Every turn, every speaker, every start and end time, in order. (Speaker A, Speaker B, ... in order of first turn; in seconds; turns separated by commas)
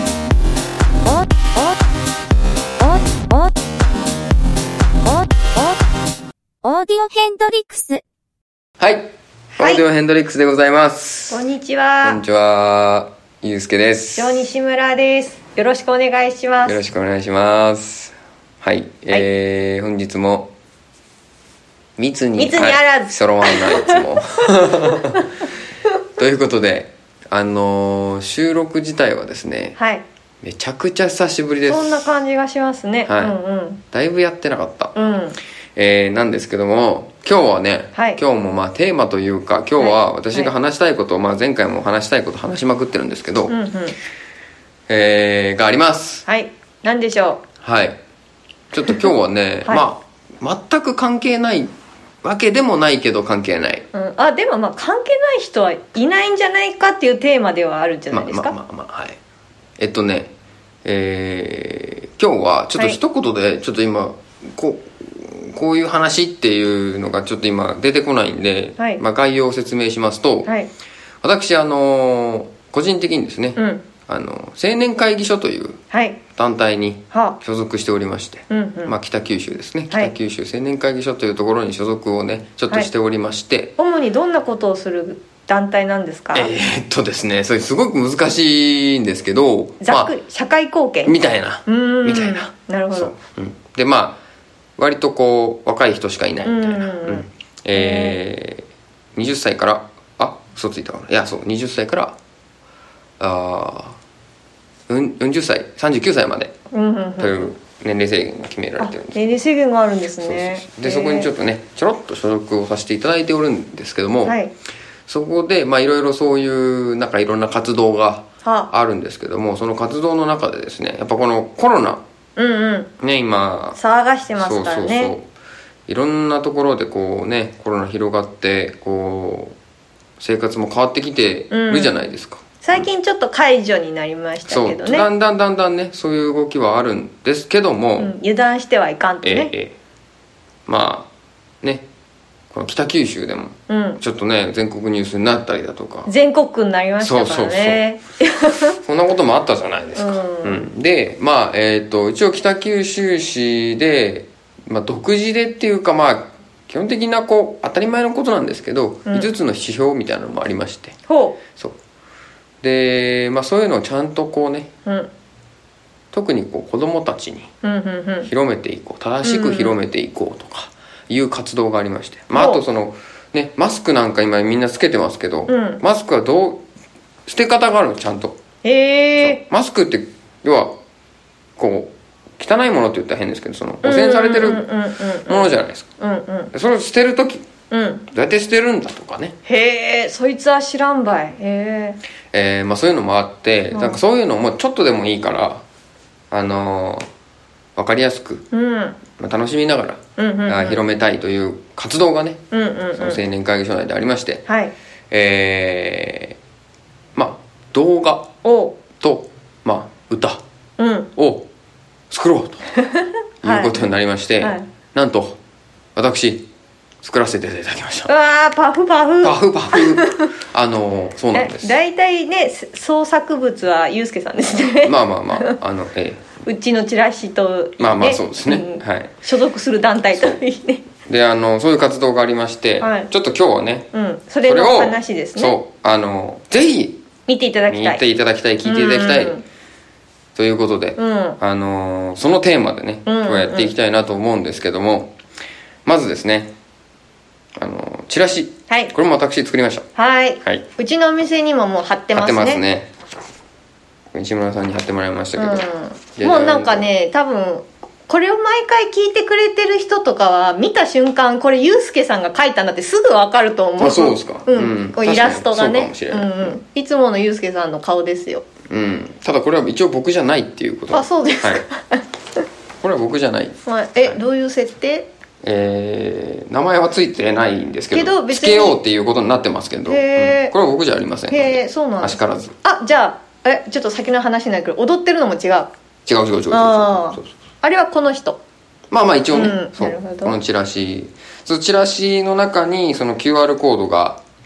Speaker A: 1.1-1.7, Speaker A: 2.8-3.5, Speaker A: 5.1-5.8, Speaker A: 6.6-8.0, Speaker B: 8.8-11.4, Speaker C: 9.6-9.8, Speaker C: 11.3-12.2, Speaker B: 12.0-14.5, Speaker C: 14.2-16.8, Speaker B: 16.6-20.5, Speaker B: 22.0-25.3, Speaker C: 22.4-24.0, Speaker B: 26.2-29.8, Speaker C: 29.8-30.0, Speaker B: 30.4-32.1, Speaker C: 31.7-33.8, Speaker B: 33.1-33.4, Speaker B: 33.9-35.0, Speaker C: 35.0-35.4, Speaker B: 35.8-43.6, Speaker C: 38.0-38.2, Speaker C: 39.8-40.5, Speaker C: 43.5-44.0, Speaker B: 44.9-46.2, Speaker C: 46.3-47.4, Speaker B: 47.6-48.0, Speaker B: 48.7-51.7, Speaker B: 52.2-53.9, Speaker C: 53.9-58.5, Speaker B: 58.1-59.2, Speaker B: 59.8-60.3, Speaker B: 60.9-70.5, Speaker C: 70.5-70.7, Speaker B: 71.2-75.8, Speaker C: 73.6-73.8, Speaker C: 75.9-76.2, Speaker B: 76.3-83.8, Speaker C: 77.1-77.4, Speaker C: 78.5-78.9, Speaker C: 83.8-86.5, Speaker B: 86.3-90.1, Speaker C: 89.8-93.1, Speaker B: 91.0-94.2, Speaker B: 94.8-102.2, Speaker C: 96.4-98.2, Speaker B: 103.2-104.0, Speaker B: 104.9-106.5, Speaker C: 106.7-107.5, Speaker B: 107.2-109.4, Speaker C: 108.8-111.3, Speaker B: 110.2-114.4, Speaker C: 114.2-114.5, Speaker B: 115.1-122.0, Speaker C: 118.4-118.7, Speaker C: 122.4-122.9, Speaker B: 123.0-123.8, Speaker C: 123.8-125.1, Speaker B: 124.4-125.2, Speaker B: 125.9-129.6, Speaker B: 130.2-132.9, Speaker C: 131.5-132.0, Speaker C: 132.6-135.1, Speaker B: 134.5-138.1, Speaker C: 138.0-139.5, Speaker B: 139.2-139.8, Speaker B: 140.7-141.1, Speaker B: 142.5-146.1, Speaker C: 143.7-144.0, Speaker C: 146.1-148.8, Speaker B: 147.0-147.8, Speaker B: 148.8-161.0, Speaker C: 150.0-150.6, Speaker C: 159.1-159.3, Speaker C: 161.1-161.4, Speaker B: 162.6-164.7, Speaker C: 164.8-165.1, Speaker B: 166.1-167.5, Speaker C: 167.6-168.3, Speaker B: 168.2-176.6, Speaker C: 169.2-169.7, Speaker C: 172.3-172.6, Speaker C: 175.5-175.8, Speaker B: 177.3-178.4, Speaker C: 178.6-179.4, Speaker B: 179.2-180.8, Speaker B: 181.6-184.7, Speaker C: 183.8-186.5, Speaker B: 185.3-185.9, Speaker B: 186.5-187.4, Speaker C: 187.7-188.1, Speaker B: 188.1-189.3, Speaker C: 189.5-192.0, Speaker B: 192.3-195.6, Speaker C: 193.7-194.0, Speaker B: 196.3-197.1, Speaker B: 197.8-198.5, Speaker C: 198.5-199.0, Speaker B: 199.2-202.4, Speaker C: 200.2-200.8, Speaker C: 202.5-203.2, Speaker B: 203.0-204.4, Speaker C: 204.5-204.7, Speaker B: 205.1-206.4, Speaker B: 207.2-208.3, Speaker C: 208.4-208.8, Speaker B: 209.0-210.4, Speaker C: 210.8-211.1, Speaker B: 211.2-211.5, Speaker B: 212.1-212.6, Speaker C: 212.8-213.9, Speaker B: 213.4-215.4, Speaker B: 215.9-216.5, Speaker B: 217.0-218.1, Speaker C: 218.1-220.3, Speaker B: 219.2-221.8, Speaker C: 221.3-225.6, Speaker B: 224.8-226.3, Speaker C: 226.5-230.8, Speaker B: 227.8-229.1, Speaker B: 231.1-233.9, Speaker C: 232.8-233.1, Speaker C: 233.9-235.6, Speaker B: 234.4-237.0, Speaker C: 237.3-238.0, Speaker B: 237.7-239.4, Speaker C: 238.7-239.4, Speaker B: 240.3-245.2, Speaker C: 241.0-241.4, Speaker C: 243.1-243.7, Speaker B: 245.8-246.5, Speaker B: 247.6-249.9, Speaker C: 250.0-252.6, Speaker B: 252.1-252.9, Speaker B: 254.1-256.9, Speaker C: 255.4-268.4, Speaker B: 263.8-266.6, Speaker B: 268.7-271.6, Speaker C: 270.9-272.1, Speaker B: 272.8-274.2, Speaker C: 273.7-275.1, Speaker B: 275.4-282.6, Speaker C: 277.9-278.8, Speaker C: 279.9-280.6, Speaker C: 281.3-285.7, Speaker B: 286.1-287.3, Speaker C: 286.5-288.4, Speaker B: 288.9-294.2, Speaker C: 289.3-290.4